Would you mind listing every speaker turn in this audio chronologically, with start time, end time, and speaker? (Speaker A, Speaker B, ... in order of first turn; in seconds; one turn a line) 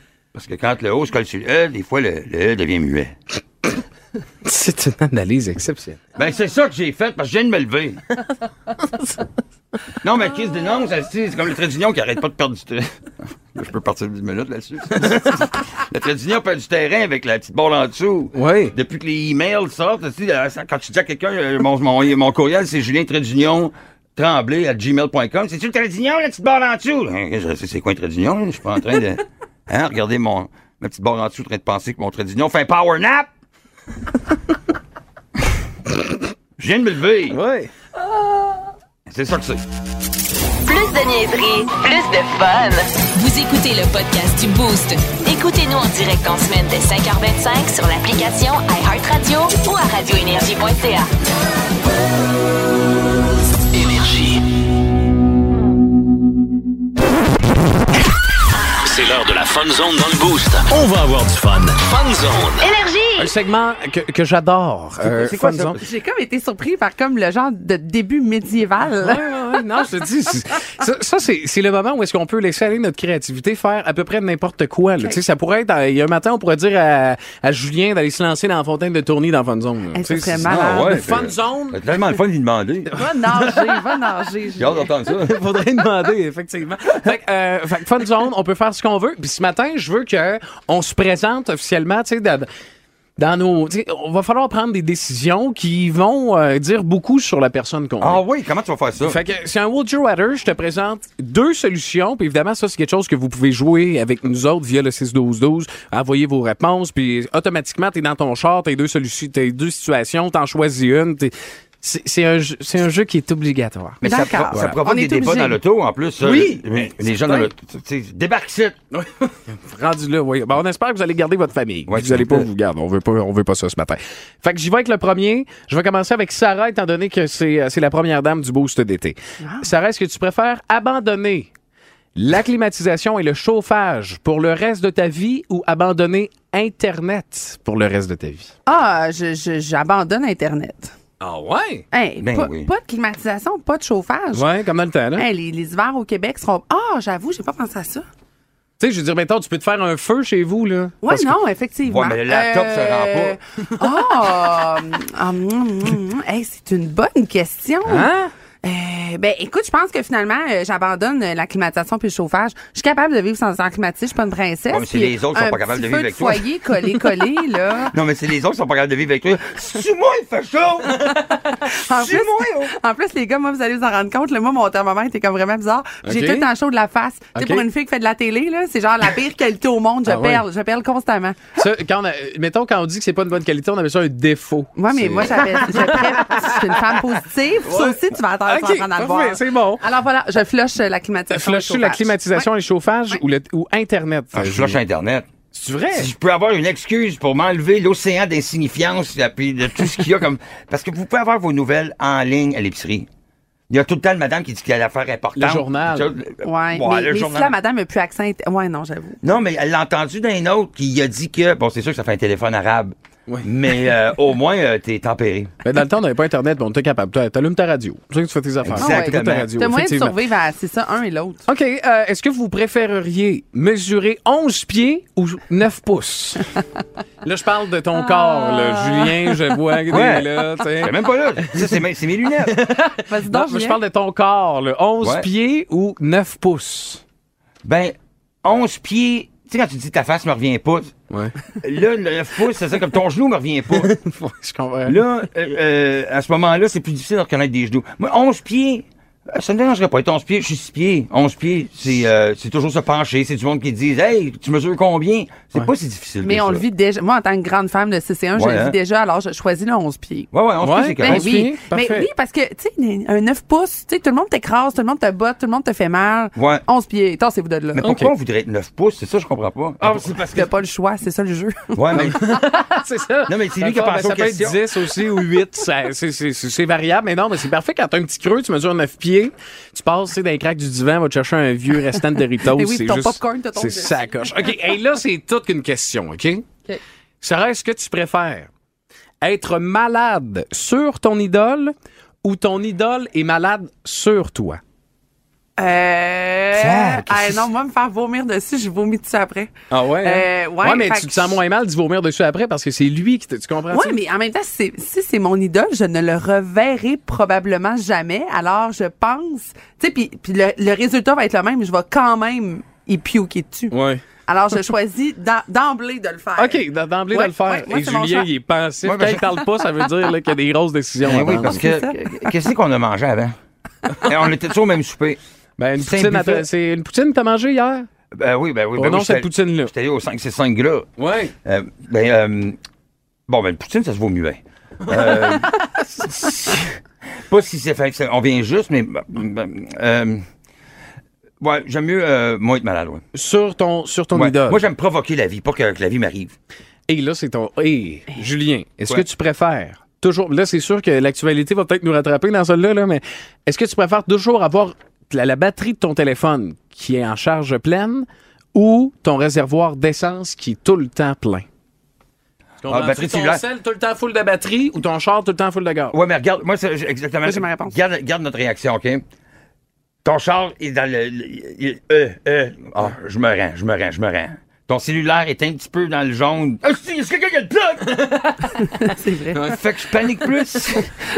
Speaker A: 0.3-3.1
Speaker B: 4.4-6.0
Speaker A: 6.1-8.0
Speaker A: 10.0-12.9
Speaker A: 13.5-33.3
Speaker B: 18.3-18.7
Speaker A: 36.6-37.4
Speaker B: 37.3-37.7
Speaker A: 39.1-39.6
Speaker C: 40.6-51.1
Speaker C: 53.8-54.4
Speaker D: 58.9-60.3
Speaker D: 61.0-62.4
Speaker E: 62.6-63.3
Speaker B: 63.1-65.8
Speaker A: 65.0-65.8
Speaker E: 65.8-69.2
Speaker B: 69.0-81.8
Speaker E: 79.9-81.0
Speaker A: 80.4-83.0
Speaker B: 82.9-83.8
Speaker E: 83.0-84.9
Speaker A: 84.6-85.3
Speaker B: 85.2-92.5
Speaker B: 93.2-98.2
Speaker A: 98.0-99.2
Speaker B: 99.0-114.8
Speaker A: 114.0-118.8
Speaker E: 114.0-115.6
Speaker B: 116.2-117.5
Speaker B: 118.9-131.5
Speaker A: 121.9-122.5
Speaker E: 129.4-129.7
Speaker B: 132.1-138.5
Speaker E: 138.7-140.9
Speaker B: 141.2-141.8
Speaker E: 141.9-144.5
Speaker A: 142.2-142.7
Speaker B: 144.3-145.3
Speaker E: 145.1-148.0
Speaker B: 148.8-151.4
Speaker E: 151.0-158.1
Speaker A: 151.8-153.4
Speaker B: 157.9-158.3
Speaker E: 158.6-167.9
Speaker A: 164.7-166.4
Speaker A: 167.8-172.7
Speaker E: 171.3-181.4
Speaker B: 176.0-176.5
Speaker B: 177.3-177.7
Speaker B: 180.0-180.4
Speaker B: 181.6-186.8
Speaker E: 184.8-192.5
Speaker B: 187.6-189.8
Speaker B: 191.3-194.8
Speaker A: 194.3-195.3
Speaker B: 195.5-196.1
Speaker A: 195.9-203.1
Speaker A: 203.7-207.6
Speaker B: 205.3-206.2
Speaker E: 206.4-209.2
Speaker A: 209.2-215.5
Speaker B: 215.6-220.1
Speaker A: 218.6-219.5
Speaker E: 218.8-221.4
Speaker B: 221.5-226.5
Speaker B: 227.2-231.6
Speaker E: 228.2-229.3
Speaker A: 229.9-232.6
Speaker B: 232.4-237.0
Speaker E: 233.1-233.8
Speaker A: 235.0-235.3
Speaker A: 237.6-240.9
Speaker A: 241.6-243.9
Speaker B: 243.7-245.0
Speaker A: 244.8-256.6
Speaker E: 256.2-260.3
Speaker A: 258.3-258.8
Speaker A: 260.3-261.3
Speaker B: 260.6-262.1
Speaker E: 261.0-267.8
Speaker A: 266.4-266.6
Speaker A: 267.8-270.5
Speaker B: 267.8-268.1
Speaker E: 270.3-272.0
Speaker A: 271.7-272.2
Speaker B: 271.9-286.4
Speaker A: 273.2-274.7
Speaker E: 282.5-284.3
Speaker B: 287.2-288.5
Speaker B: 289.2-291.7
Speaker B: 292.2-294.6
Speaker E: 295.6-301.4
Speaker A: 296.6-297.4
Speaker B: 299.7-304.0
Speaker E: 303.7-313.7
Speaker B: 313.7-314.0
Speaker E: 314.3-318.3
Speaker B: 316.4-321.7
Speaker A: 318.8-319.3
Speaker A: 321.0-323.4
Speaker E: 321.2-322.0
Speaker A: 324.0-325.2
Speaker B: 325.6-327.9
Speaker A: 325.8-326.5
Speaker A: 328.1-330.9
Speaker B: 328.8-329.7
Speaker B: 331.0-331.3
Speaker A: 331.4-332.6
Speaker A: 333.3-336.7
Speaker B: 334.9-335.3
Speaker A: 337.3-340.2
Speaker A: 341.4-343.0
Speaker B: 343.1-344.6
Speaker A: 344.1-346.3
Speaker B: 346.9-361.4
Speaker B: 362.6-365.9
Speaker A: 362.6-363.4
Speaker A: 365.9-369.0
Speaker E: 367.2-367.8
Speaker A: 370.0-378.0
Speaker B: 377.9-378.5
Speaker E: 378.6-379.5
Speaker A: 379.3-380.9